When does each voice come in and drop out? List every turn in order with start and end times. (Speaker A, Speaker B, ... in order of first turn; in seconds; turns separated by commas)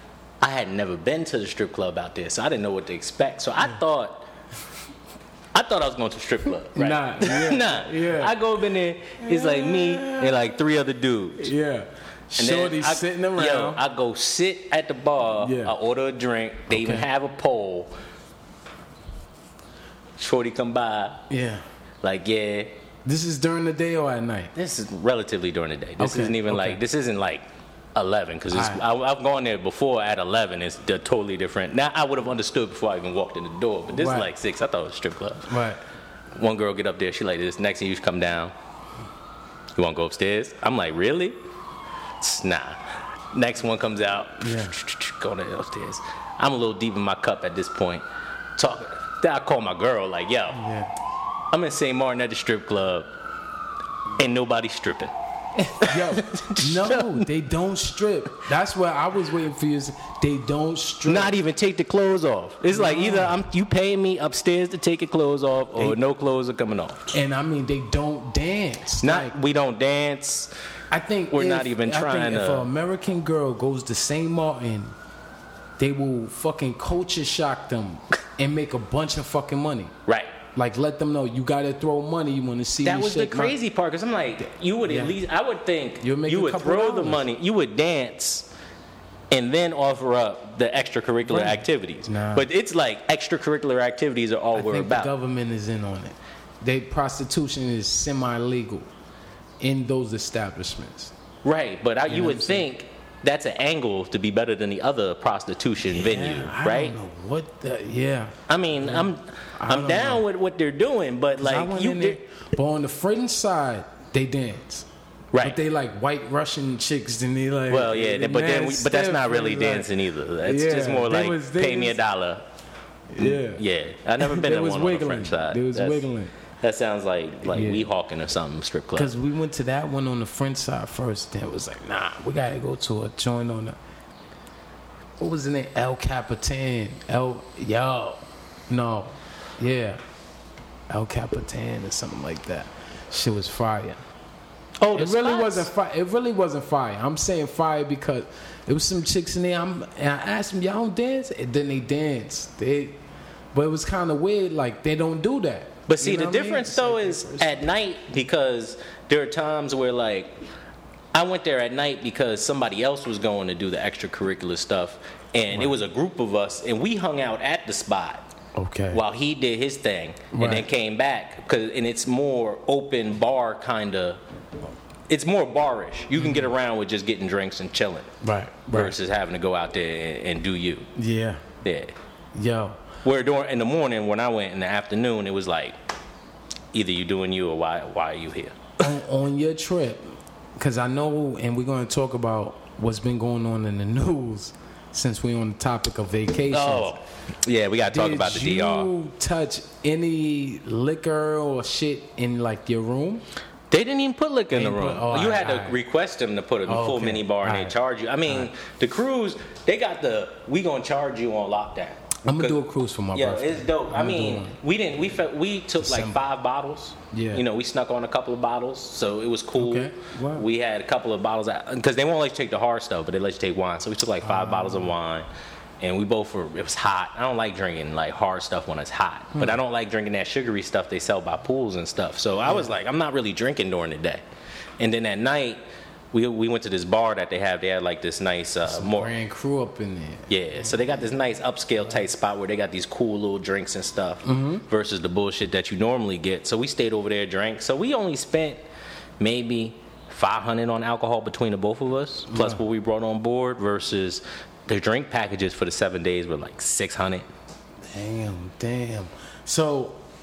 Speaker A: 0.4-4.3, Speaker A: 5.5-11.5, Speaker B: 6.7-8.4, Speaker B: 9.2-10.6, Speaker B: 11.4-13.8, Speaker A: 12.4-17.9, Speaker B: 15.4-15.7, Speaker B: 16.7-17.1, Speaker A: 20.2-21.2, Speaker B: 21.3-21.6, Speaker A: 22.0-22.7, Speaker B: 23.0-24.5, Speaker A: 24.5-35.5, Speaker B: 26.0-26.8, Speaker B: 28.5-28.8, Speaker B: 33.9-34.3, Speaker B: 35.5-35.8, Speaker A: 36.3-38.5, Speaker A: 39.8-41.4, Speaker A: 42.2-42.8, Speaker A: 43.3-48.0, Speaker B: 44.4-44.7, Speaker A: 48.6-50.6, Speaker B: 50.5-50.9, Speaker A: 51.5-53.1, Speaker A: 54.1-55.1, Speaker B: 55.6-61.4, Speaker A: 55.8-57.3, Speaker A: 61.0-67.1, Speaker B: 62.7-63.4, Speaker B: 67.1-69.3, Speaker A: 69.0-70.5, Speaker B: 70.9-74.9, Speaker A: 71.3-72.7, Speaker B: 75.8-79.9, Speaker A: 80.0-80.3, Speaker B: 80.5-83.5, Speaker A: 82.8-88.5, Speaker B: 84.8-85.1, Speaker B: 86.0-87.2, Speaker A: 89.3-95.1, Speaker B: 91.2-92.5, Speaker B: 94.5-98.9, Speaker B: 99.6-101.1, Speaker A: 101.4-106.9, Speaker B: 102.1-102.7, Speaker B: 105.9-110.2, Speaker A: 108.5-112.2, Speaker B: 111.4-114.9, Speaker A: 115.3-115.6, Speaker B: 115.4-122.0, Speaker A: 117.7-122.4, Speaker B: 123.1-123.6, Speaker A: 123.2-126.1, Speaker B: 124.2-126.3, Speaker A: 126.6-129.1, Speaker B: 127.4-127.9, Speaker B: 128.9-133.8, Speaker B: 135.2-140.0, Speaker B: 140.9-144.0, Speaker A: 144.8-145.7, Speaker B: 144.9-153.0, Speaker B: 153.5-157.6, Speaker A: 155.9-160.3, Speaker A: 161.1-168.2, Speaker B: 165.5-165.8, Speaker B: 168.5-169.0, Speaker A: 168.9-174.2, Speaker B: 170.3-170.7, Speaker A: 175.1-178.1, Speaker B: 176.2-176.5, Speaker B: 178.2-178.9, Speaker A: 178.7-180.9, Speaker B: 180.9-181.4, Speaker A: 181.6-181.9, Speaker B: 182.3-182.8, Speaker A: 183.0-185.7, Speaker A: 186.7-188.6, Speaker B: 188.8-196.9, Speaker A: 196.5-198.9, Speaker B: 197.9-203.2, Speaker A: 203.7-212.6, Speaker B: 204.5-205.8, Speaker B: 206.7-208.5, Speaker B: 212.2-214.6, Speaker A: 213.1-225.3, Speaker B: 215.8-216.2, Speaker B: 217.1-217.4, Speaker B: 219.6-220.5, Speaker B: 224.2-224.9, Speaker A: 225.8-234.2, Speaker B: 232.4-232.7, Speaker A: 234.8-235.6, Speaker A: 236.1-239.1, Speaker B: 238.6-240.9, Speaker A: 240.3-248.6, Speaker B: 244.2-244.7, Speaker A: 249.2-257.3, Speaker B: 252.3-252.6, Speaker B: 257.8-260.0